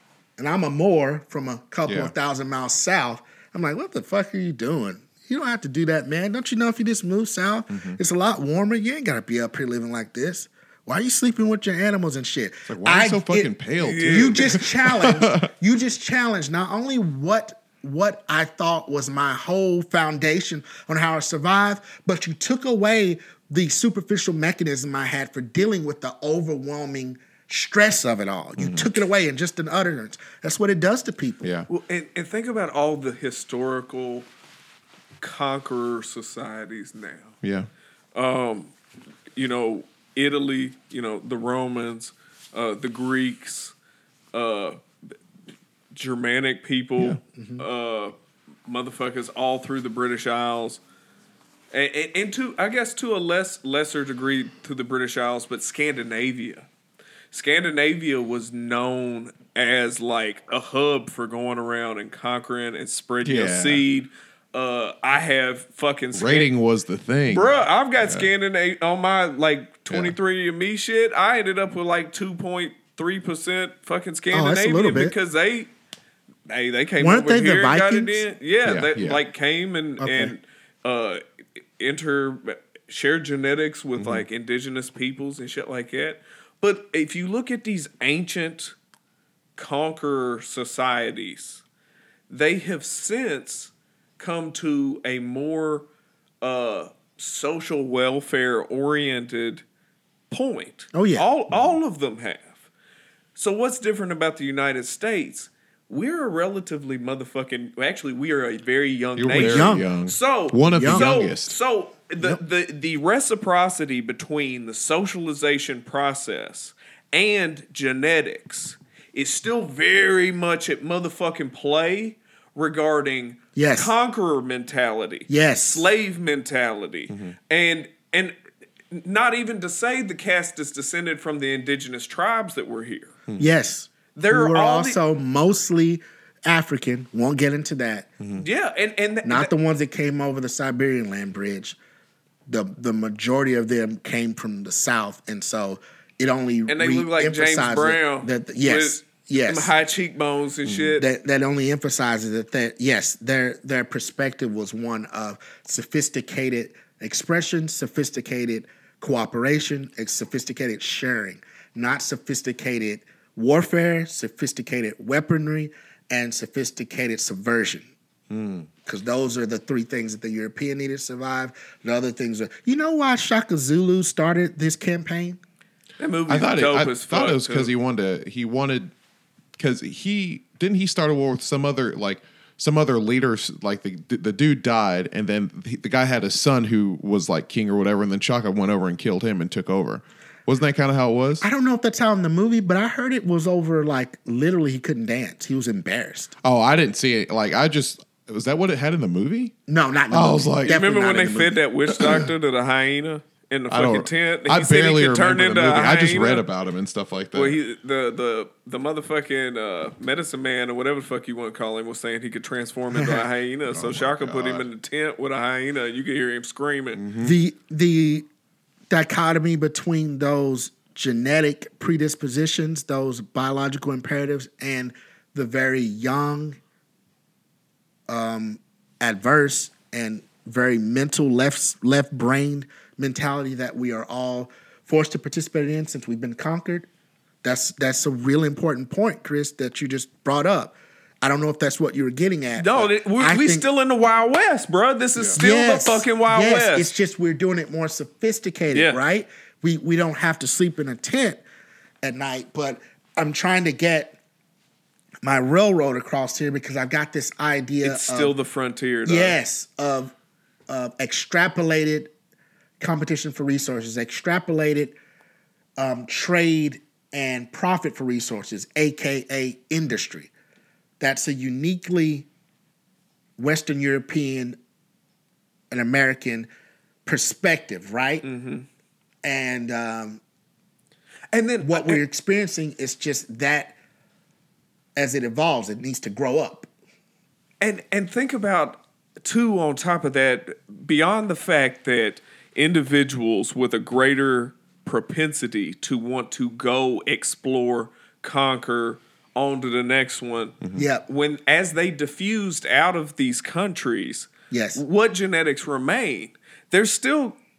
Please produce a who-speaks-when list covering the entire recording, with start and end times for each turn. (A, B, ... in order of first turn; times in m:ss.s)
0:00.4-0:31.5 A
0:01.8-0:02.1 B
0:07.7-0:08.0 B
0:12.6-0:15.4 B
0:13.8-0:14.6 C
0:28.6-0:28.9 B
0:31.7-0:34.3 C
0:35.2-0:37.3 C
0:37.4-0:37.7 B
0:38.1-0:38.7 C
0:39.3-0:43.7 C
0:44.3-0:44.8 C
0:45.9-0:48.1 C
0:47.4-0:47.6 A
0:48.6-0:50.8 C
0:51.7-0:56.7 C
0:57.3-1:06.5 C
1:03.2-1:03.8 B
1:06.1-1:08.3 B
1:07.3-1:15.7 C
1:09.9-1:10.1 B
1:14.3-1:15.1 A
1:16.5-1:21.2 C
1:17.0-1:18.2 A
1:18.6-1:19.2 B
1:20.0-1:20.3 A
1:21.8-1:28.7 C
1:24.0-1:24.2 B
1:29.6-1:31.6 C
1:32.3-1:35.9 C
1:36.4-1:39.6 C
1:40.3-1:42.6 C
1:40.9-1:41.2 A
1:43.4-2:08.4 C
1:49.2-1:51.5 B
1:49.4-1:49.9 A
1:50.7-1:51.1 A
2:03.6-2:03.9 A
2:05.3-2:05.9 A
2:07.1-2:07.3 B
2:08.9-2:13.2 C
2:13.4-2:18.1 A
2:14.1-2:15.0 C
2:18.2-2:18.4 B
2:18.4-2:19.5 C
2:19.2-2:21.8 A
2:22.5-2:29.7 A
2:26.7-2:31.0 C
2:31.0-2:47.9 A
2:48.3-2:48.7 B
2:48.8-2:55.4 A
2:56.0-2:57.7 C
2:56.3-2:58.9 B
2:59.6-3:11.4 B
3:11.4-3:16.3 A
3:16.4-3:19.5 B
3:19.7-3:21.6 A
3:20.1-3:20.8 B
3:20.6-3:26.4 C
3:23.7-3:27.6 B
3:27.3-3:37.0 C
3:33.7-3:34.6 B
3:36.9-3:37.3 B
3:37.2-3:38.2 A
3:38.9-3:46.6 A
3:48.1-3:56.9 A
3:57.4-4:03.6 A
4:02.6-4:06.9 C
4:05.4-4:11.4 A
4:08.7-4:09.0 C
4:12.0-4:14.2 A
4:15.2-4:18.3 A
4:17.8-4:19.4 C
4:19.0-4:20.1 A
4:20.7-4:22.1 A
4:22.8-4:25.0 A
4:25.8-4:30.3 A
4:31.0-4:32.3 A
4:33.4-4:34.6 A
4:35.7-4:36.5 A
4:37.0-4:38.2 A
4:38.2-4:38.6 C
4:39.2-4:40.2 A
4:41.3-4:42.0 C
4:41.6-4:43.8 A
4:45.0-4:46.7 A
4:47.6-5:07.4 C
5:00.7-5:01.0 A
5:04.5-5:04.8 A